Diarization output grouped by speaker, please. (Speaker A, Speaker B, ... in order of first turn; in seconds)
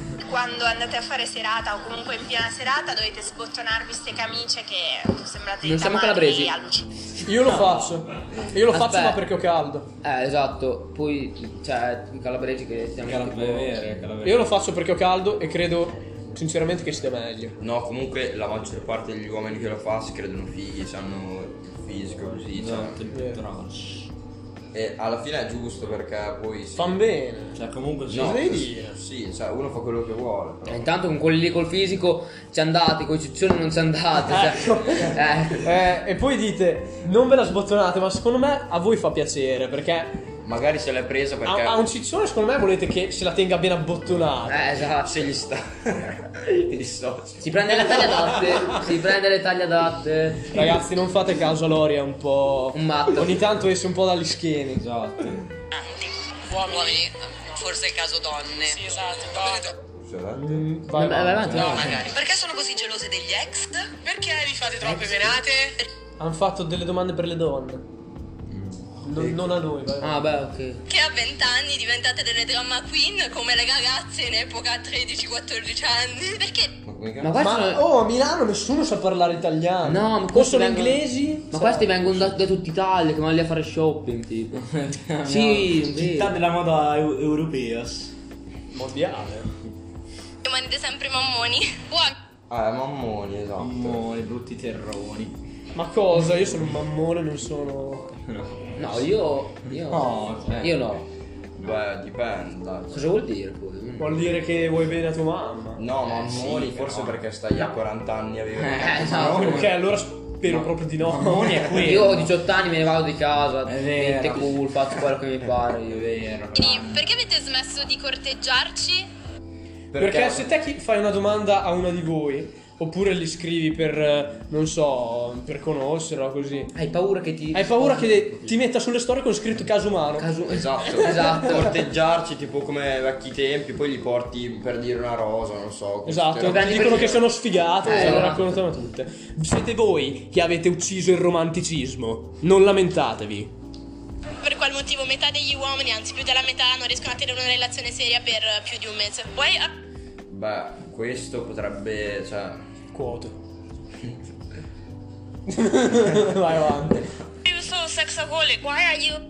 Speaker A: 0.2-6.9, 70.9-76.7, 90.4-92.1, 116.5-119.1, 144.4-149.7, 157.4-159.2
Speaker B: 5.6-6.5, 8.7-9.2, 10.0-13.8, 30.7-35.7, 44.5-45.3, 47.4-50.6, 52.7-53.5, 60.9-62.1, 70.0-70.8, 77.2-77.9, 79.8-84.6, 85.2-86.3, 98.8-101.1, 102.9-104.3, 108.8-109.7, 111.7-116.1, 126.7-128.4, 130.2-131.8, 136.4-138.5
Speaker C: 7.2-9.9, 14.2-17.6, 23.1-23.4, 26.7-29.0, 34.3-40.2, 41.4-44.7, 47.7-48.8, 50.5-54.8, 60.3-61.9, 66.2-67.8, 69.0-70.3, 77.4-82.3, 88.7-89.5, 95.7-98.2, 104.0-105.8, 109.4-111.9, 120.0-126.7, 127.5-130.3, 136.1-143.5, 152.9-153.4, 155.5-157.1
Speaker D: 7.4-8.0, 13.0-14.5, 22.5-24.1, 27.5-28.4, 54.8-55.4, 84.5-88.1, 93.6-95.3, 98.3-99.1, 99.7-100.8, 106.2-107.2, 108.6-109.7, 110.4-112.4, 113.6-114.6, 115.9-117.1
Speaker E: 17.6-23.0, 24.7-27.0, 28.1-30.9, 40.4-41.9, 45.0-47.6, 59.9-60.7, 69.2-69.5, 76.8-77.3, 92.5-94.0, 101.6-103.0, 105.8-109.4, 119.9-120.5, 130.4-137.3, 137.8-138.4, 150.3-152.6
Speaker F: 55.8-59.6, 61.5-65.8